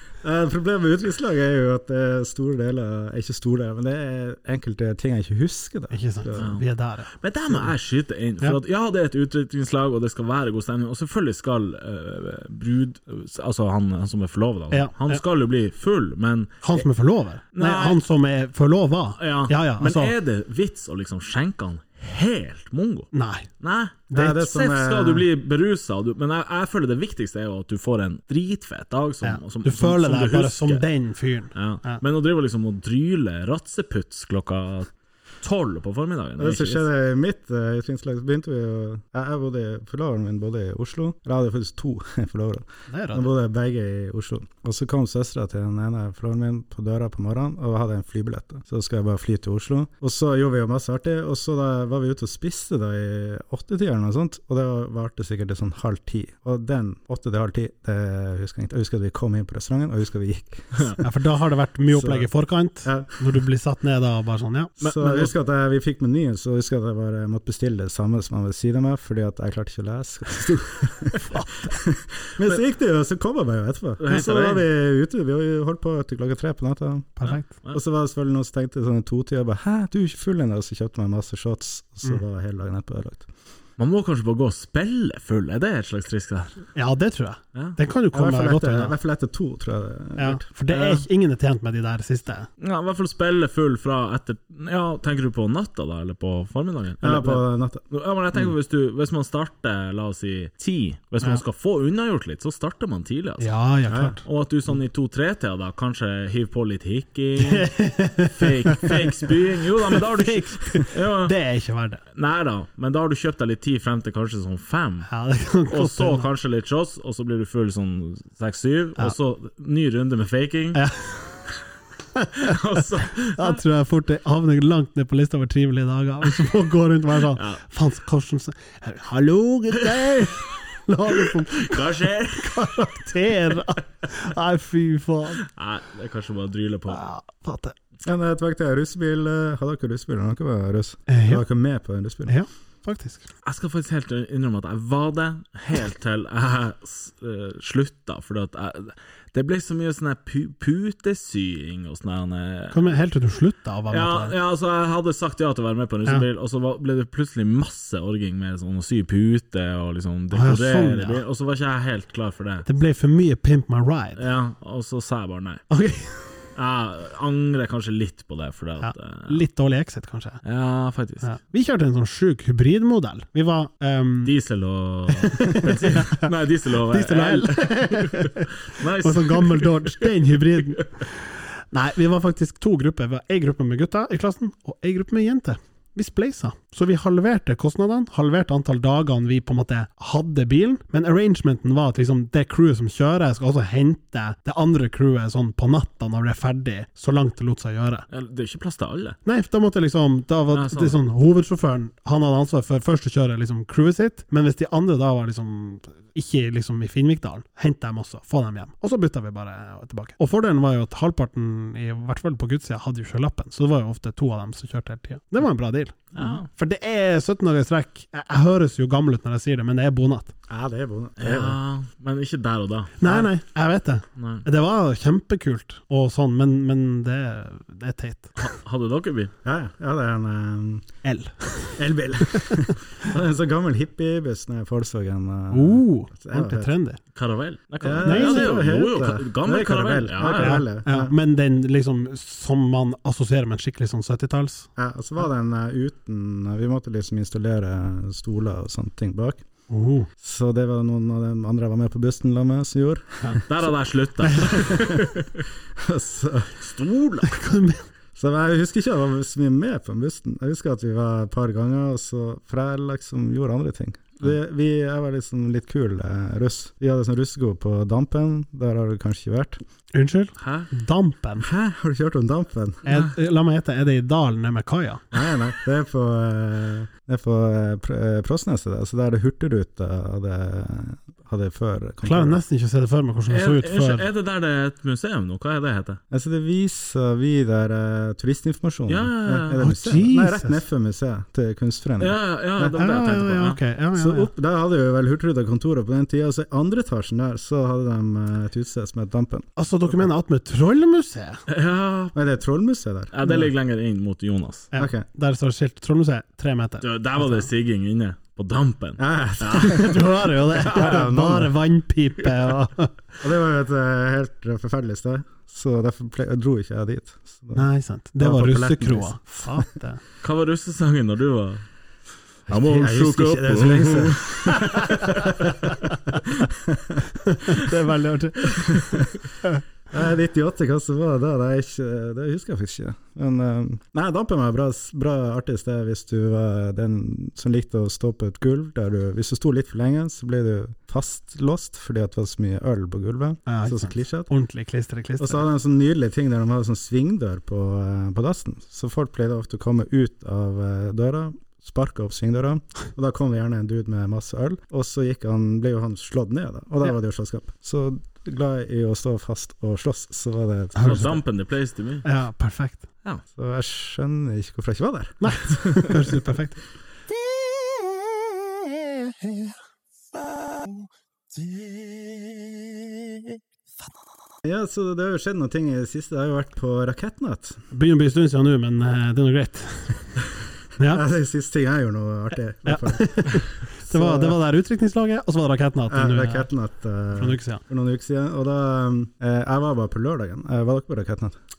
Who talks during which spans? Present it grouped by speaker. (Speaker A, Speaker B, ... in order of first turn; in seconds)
Speaker A: 0.2-6.5, 24.1-25.2, 36.4-61.0, 61.9-62.3, 62.8-63.1, 64.8-83.2, 88.1-91.0, 97.0-97.8, 103.9-104.2, 138.0-142.3, 220.5-221.6, 229.4-230.9, 231.8-236.7, 237.8-241.1, 244.8-249.4, 250.2-253.4, 254.5-255.0, 255.8-256.5, 258.1-269.6, 271.4-272.8, 275.1-282.4, 286.1-292.8, 293.9-299.5, 302.1-303.5, 304.8-305.0, 309.0-310.0, 310.6-311.5, 313.2-317.7, 318.2-319.6, 322.5-325.5, 326.4-327.0, 328.6-329.1, 329.9-344.3, 345.2-361.2, 363.3-366.2, 374.4-377.6, 380.9-384.4, 385.9-391.3
Speaker B: 5.9-7.1, 14.7-15.2, 16.6-20.1, 23.1-23.5, 29.2-32.0, 42.9-43.3, 61.0-64.7, 71.2-71.7, 77.2-77.5, 86.7-88.9, 90.2-92.5, 103.4-104.2, 107.4-109.3, 109.9-112.0, 115.1-116.3, 120.7-121.4, 122.1-122.6, 123.3-135.4, 136.9-137.7, 141.1-141.4, 142.3-143.2, 152.7-154.3, 160.3-161.2, 162.7-164.2, 165.7-166.4, 168.8-170.4, 171.2-174.3, 175.1-176.3, 176.8-198.1, 199.2-220.3, 223.0-228.5, 231.0-231.8, 232.3-232.6, 235.5-237.0, 238.0-238.6, 240.3-244.7, 249.7-250.1, 254.2-254.6, 257.2-257.8, 269.9-271.4, 272.8-275.0, 282.0-284.1, 289.6-290.6, 292.7-294.3, 299.6-301.4, 304.7-307.5, 309.5-312.9, 317.6-320.0, 327.2-329.6, 343.5-345.4, 360.7-361.1, 362.0-362.8, 365.2-366.6, 377.7-380.0, 380.8-381.0, 382.6-386.5, 387.1-387.6
Speaker C: 6.3-16.8, 17.5-18.0, 19.2-30.8, 31.5-34.9, 35.4-36.8, 64.8-65.3, 74.0-74.7, 77.2-77.8, 83.8-86.7, 92.6-103.5, 104.2-111.3, 112.1-115.1, 115.7-120.8, 122.4-123.6, 127.3-127.6, 130.1-130.4, 131.1-132.8, 135.4-137.0, 143.4-152.9, 153.9-162.7, 164.2-165.6, 166.6-169.4, 170.4-171.3, 174.2-180.1, 198.1-199.2, 200.5-201.0, 216.1-216.5, 221.2-223.0, 224.2-224.4, 228.4-229.3, 237.1-240.6, 253.3-255.3, 256.6-257.4, 270.4-270.7, 283.3-286.0, 288.9-289.6, 292.0-293.6, 301.5-302.1, 303.1-304.7, 306.8-311.0, 320.2-321.6, 322.5-325.2, 360.8-362.0